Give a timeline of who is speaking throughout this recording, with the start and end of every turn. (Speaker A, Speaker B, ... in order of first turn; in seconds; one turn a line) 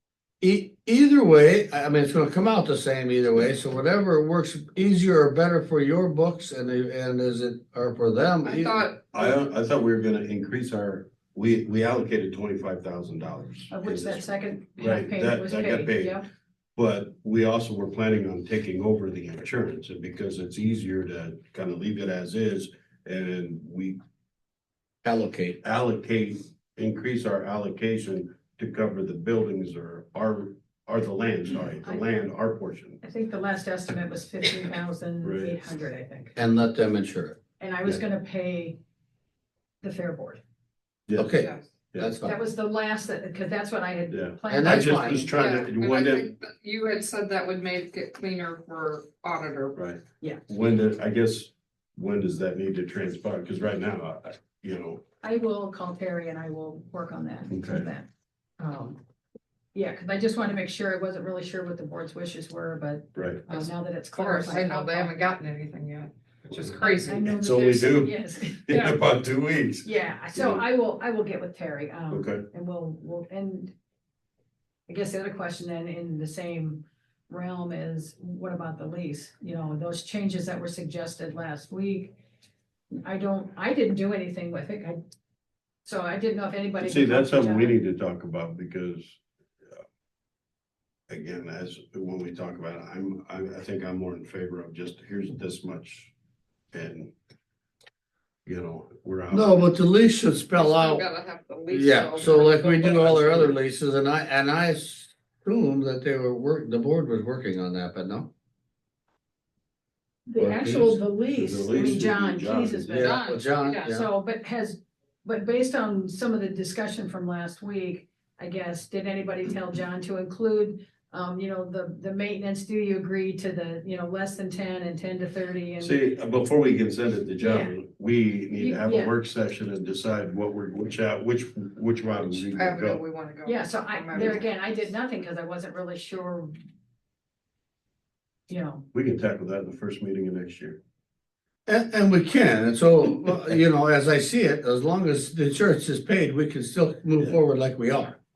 Speaker A: 0.4-8.9
Speaker B: 8.4-9.3
Speaker C: 9.1-16.2
Speaker D: 13.7-16.2
Speaker C: 16.8-24.0
Speaker A: 25.0-25.6
Speaker C: 25.6-33.0
Speaker D: 33.0-36.4
Speaker C: 35.2-35.6
Speaker A: 36.4-37.4
Speaker D: 37.6-38.8
Speaker D: 39.8-40.4
Speaker C: 41.1-41.3
Speaker A: 41.2-42.4
Speaker B: 41.3-41.6
Speaker D: 42.2-45.4
Speaker C: 44.1-46.3
Speaker A: 44.5-45.3
Speaker B: 45.4-49.8
Speaker C: 49.7-55.0
Speaker D: 55.2-58.1
Speaker C: 57.5-57.9
Speaker D: 58.6-59.0
Speaker D: 59.7-65.1
Speaker C: 63.1-63.5
Speaker B: 63.5-67.4
Speaker D: 66.8-69.0
Speaker C: 67.3-70.6
Speaker D: 69.8-73.8
Speaker C: 72.1-72.4
Speaker D: 74.9-82.1
Speaker D: 82.9-85.0
Speaker D: 85.8-87.8
Speaker C: 86.8-89.2
Speaker C: 91.1-96.1
Speaker C: 96.7-97.1
Speaker C: 98.5-99.7
Speaker A: 99.3-101.1
Speaker B: 100.5-103.5
Speaker A: 101.7-108.3
Speaker D: 110.3-126.0
Speaker C: 110.4-113.1
Speaker A: 110.4-110.8
Speaker A: 112.9-114.1
Speaker C: 125.8-132.8
Speaker D: 127.4-127.8
Speaker D: 128.6-129.1
Speaker A: 132.2-133.0
Speaker B: 132.5-134.4
Speaker D: 133.4-136.5
Speaker D: 138.5-138.8
Speaker C: 138.9-140.8
Speaker A: 141.7-148.2